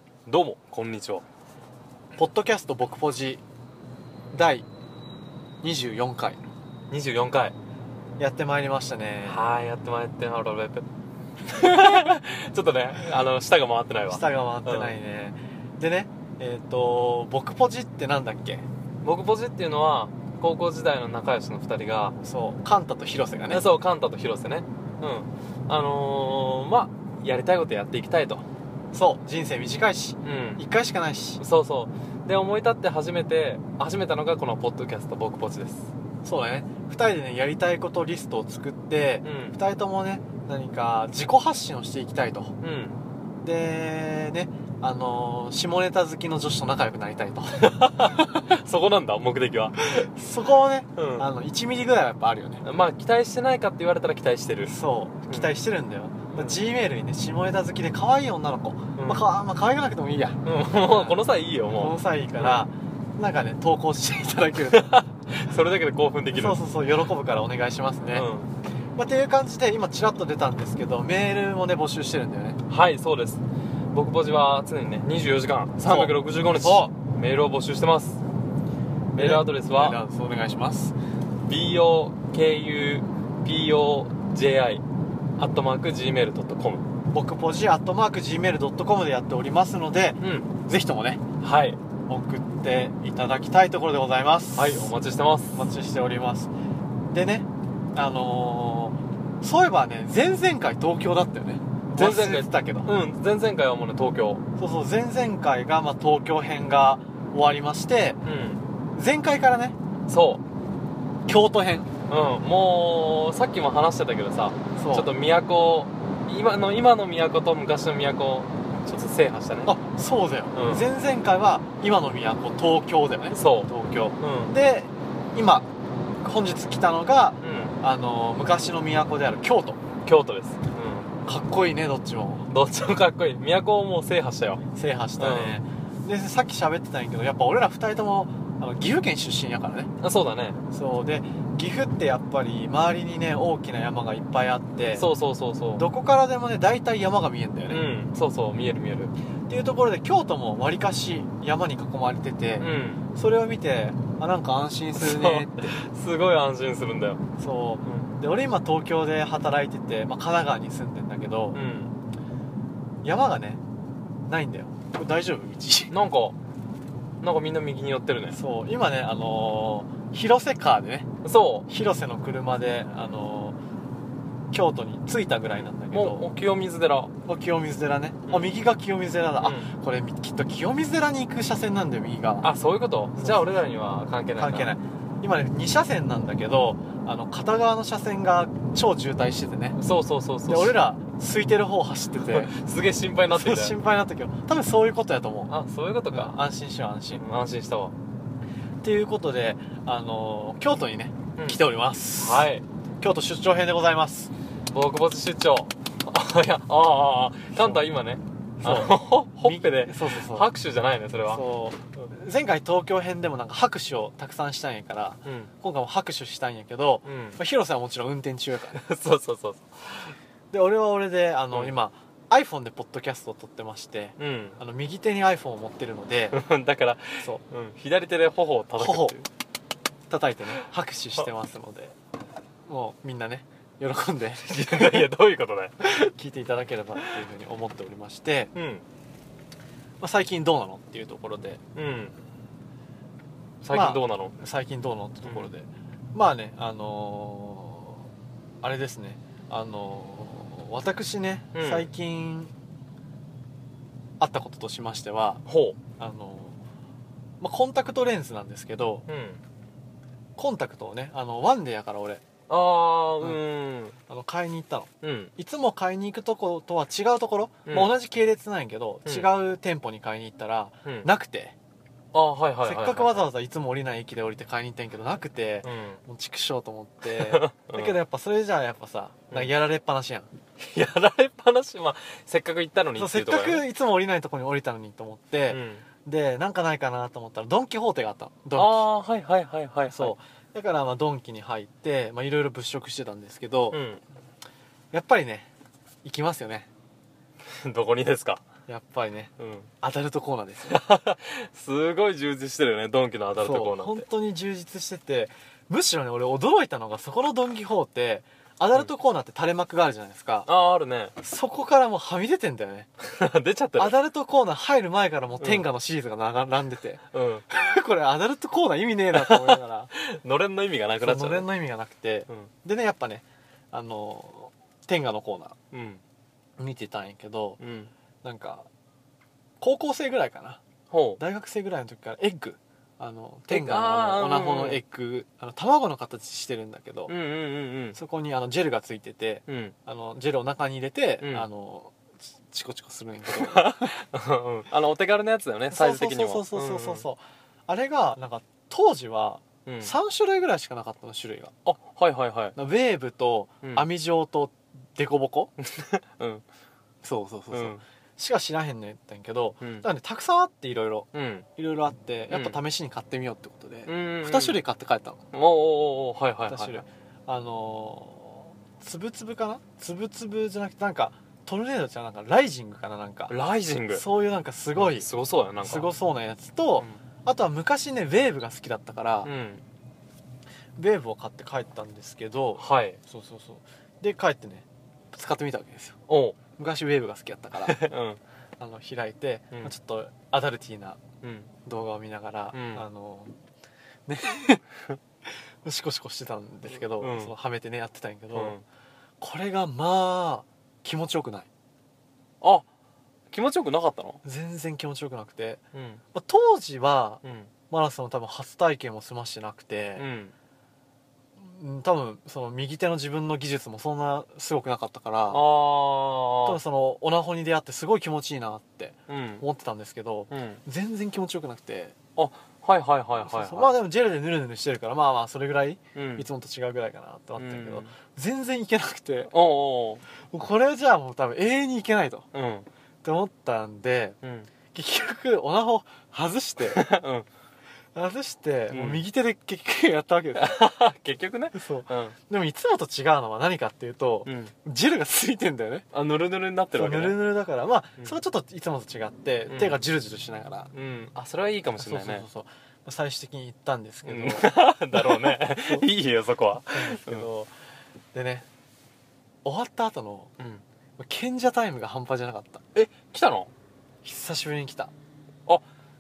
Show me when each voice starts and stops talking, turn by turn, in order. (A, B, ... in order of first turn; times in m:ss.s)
0:00.3-0:01.2 A
0:02.2-0:03.4 B
0:04.3-0:04.7 B
0:05.6-0:06.4 B
0:06.9-0:07.6 A
0:08.2-0:09.5 B
0:09.2-0:10.9 A
0:11.5-0:15.0 A
0:14.1-0:18.6 B
0:19.0-0:22.2 A
0:22.2-0:23.7 B
0:23.5-0:28.5 A
0:28.9-0:31.4 B
0:30.2-0:30.6 A
0:31.4-0:35.9 A
0:36.2-0:42.6 B
0:39.2-0:39.6 A
0:42.6-0:43.0 A
0:43.4-0:48.6 B
0:47.6-0:49.9 A
0:49.8-0:52.6 B
0:51.0-0:51.3 A
0:52.6-0:54.8 A
0:54.6-1:05.0 B
0:55.3-0:55.5 A
0:56.3-0:56.6 A
0:59.0-0:59.3 A
1:00.4-1:02.7 A
1:04.7-1:06.6 A
1:06.3-1:08.3 B
1:08.1-1:08.5 A
1:09.0-1:12.6 B
1:12.7-1:18.2 A
1:15.8-1:16.9 B
1:19.1-1:20.0 A
1:19.2-1:21.0 B
1:21.5-1:24.8 A
1:25.4-1:26.9 A
1:27.1-1:31.2 B
1:30.2-1:30.5 A
1:31.4-1:31.8 A
1:32.1-1:34.9 B
1:34.6-1:35.7 A
1:35.5-1:36.5 B
1:37.1-1:42.9 B
1:41.9-1:44.4 A
1:44.6-1:48.2 B
1:48.2-1:48.6 A
1:49.0-1:49.8 B
1:50.1-1:50.4 A
1:51.3-1:51.9 B
1:52.1-1:59.7 A
1:54.8-1:55.2 B
1:59.6-2:05.7 B
2:00.5-2:00.9 A
2:03.3-2:04.6 A
2:06.2-2:09.8 B
2:07.4-2:07.8 A
2:10.0-2:11.2 A
2:11.2-2:12.5 B
2:12.5-2:14.6 A
2:14.7-2:19.9 B
2:15.2-2:15.6 A
2:20.0-2:20.6 A
2:20.7-2:25.1 B
2:25.0-2:25.9 A
2:25.8-2:27.9 B
2:27.7-2:29.1 A
2:29.5-2:35.8 B
2:32.6-2:33.0 A
2:35.0-2:37.2 A
2:37.4-2:41.6 B
2:37.8-2:38.2 A
2:41.5-2:42.0 A
2:43.0-2:43.6 B
2:44.3-2:45.9 B
2:45.9-2:46.4 A
2:47.2-2:48.4 A
2:48.3-2:51.1 B
2:51.2-2:51.7 A
2:51.7-2:53.6 B
2:54.5-2:56.3 B
2:55.8-2:57.1 A
2:57.3-3:02.5 B
2:59.4-2:59.7 A
3:02.4-3:04.7 A
3:03.2-3:03.6 B
3:04.4-3:09.8 B
3:09.8-3:10.8 A
3:10.5-3:12.5 B
3:12.2-3:13.8 A
3:13.3-3:15.6 B
3:15.5-3:16.4 A
3:16.1-3:17.2 B
3:17.1-3:18.0 A
3:18.8-3:24.3 B
3:21.4-3:21.6 A
3:22.2-3:22.6 A
3:24.7-3:31.4 A
3:27.5-3:27.9 B
3:28.6-3:30.5 B
3:31.3-3:38.8 B
3:35.2-3:35.5 A
3:37.0-3:37.4 A
3:38.7-3:40.2 A
3:40.5-3:46.4 B
3:41.5-3:41.8 A
3:44.2-3:44.6 A
3:46.3-3:49.3 A
3:48.8-3:49.2 B
3:50.1-3:52.0 B
3:52.7-3:55.1 B
3:54.5-3:55.8 A
3:55.8-3:58.5 B
3:58.6-3:58.8 A
4:00.0-4:01.6 B
4:01.8-4:02.2 A
4:03.6-4:04.4 A
4:03.7-4:08.0 B
4:05.2-4:05.5 A
4:08.6-4:12.5 B
4:11.5-4:11.9 A
4:14.2-4:15.4 B
4:15.5-4:15.8 A
4:16.0-4:16.6 B
4:17.4-4:19.1 B
4:19.1-4:19.4 A
4:20.4-4:22.2 B
4:22.5-4:24.0 A
4:24.1-4:31.6 B
4:25.0-4:25.3 A
4:27.7-4:27.9 A
4:29.0-4:29.3 A
4:32.1-4:33.3 A
4:32.6-4:40.3 B
4:35.6-4:36.0 A
4:37.1-4:38.0 A
4:40.6-4:43.6 A
4:43.0-4:48.9 B
4:45.5-4:45.8 A
4:48.5-4:50.2 A
4:49.9-4:53.8 B
4:53.7-4:54.0 A
4:54.9-4:55.5 B
4:56.0-4:56.7 B
4:57.5-4:58.4 A
4:58.7-5:00.8 B
4:59.4-4:59.7 A
5:00.7-5:04.1 A
5:03.4-5:10.5 B
5:10.5-5:11.2 A
5:11.2-5:12.9 B
5:13.0-5:14.0 A
5:13.8-5:19.9 B
5:15.4-5:15.7 A
5:17.1-5:17.5 A
5:19.1-5:21.5 A
5:21.0-5:25.6 B
5:25.7-5:26.0 A
5:26.6-5:27.6 B
5:27.6-5:27.9 A
5:28.2-5:28.7 B
5:29.6-5:30.6 B
5:30.9-5:31.2 A
5:31.2-5:37.2 B
5:33.5-5:34.8 A
5:37.1-5:38.0 A
5:38.0-5:44.0 B
5:39.5-5:39.8 A
5:41.2-5:41.5 A
5:43.3-5:47.1 A
5:45.7-5:51.6 B
5:49.7-5:49.9 A
5:51.6-5:52.6 A
5:52.6-5:55.5 B
5:55.6-5:56.4 A
5:57.0-6:05.2 B
5:57.5-5:57.8 A
5:59.6-5:59.9 A
6:01.1-6:01.5 A
6:02.3-6:02.6 A
6:03.9-6:04.6 A
6:05.3-6:06.8 A
6:06.5-6:13.4 B
6:13.3-6:14.0 A
6:13.9-6:15.1 B
6:14.8-6:15.9 A
6:15.6-6:19.3 B
6:19.2-6:19.6 A
6:20.8-6:26.0 B
6:22.6-6:23.0 A
6:26.1-6:26.4 A
6:26.6-6:27.9 B
6:27.6-6:28.2 A
6:28.6-6:31.0 B
6:31.2-6:31.5 A
6:31.6-6:33.3 B
6:32.5-6:32.8 A
6:34.1-6:34.6 B
6:35.6-6:38.6 B
6:37.0-6:37.3 A
6:38.3-6:38.6 A
6:39.2-6:41.5 B
6:42.4-6:42.7 A
6:43.3-6:44.2 A
6:44.2-6:45.6 B
6:45.7-6:46.0 A
6:46.1-6:50.1 B
6:47.2-6:47.5 A
6:50.0-6:50.3 A
6:51.4-6:55.4 B
6:55.3-6:56.6 A
6:56.4-7:02.0 B
6:59.1-6:59.4 A
7:00.3-7:00.6 A
7:02.2-7:03.7 A
7:03.2-7:09.3 B
7:06.0-7:06.3 A
7:07.4-7:07.9 A
7:09.3-7:10.0 A
7:10.3-7:12.3 B
7:12.3-7:12.7 A
7:13.0-7:14.2 B
7:14.2-7:14.5 A
7:14.7-7:16.9 B
7:16.7-7:17.3 A
7:18.0-7:20.6 B
7:18.7-7:19.0 A
7:20.4-7:22.2 A
7:21.5-7:25.9 B
7:24.2-7:24.5 A
7:25.9-7:27.2 A
7:26.7-7:30.7 B
7:29.5-7:29.8 A
7:30.7-7:32.3 A
7:31.8-7:35.9 B
7:34.0-7:37.3 A
7:36.7-7:37.5 B
7:38.1-7:38.5 B
7:39.4-7:40.3 B
7:41.0-7:42.6 B
7:42.8-7:43.5 A
7:44.0-7:44.9 B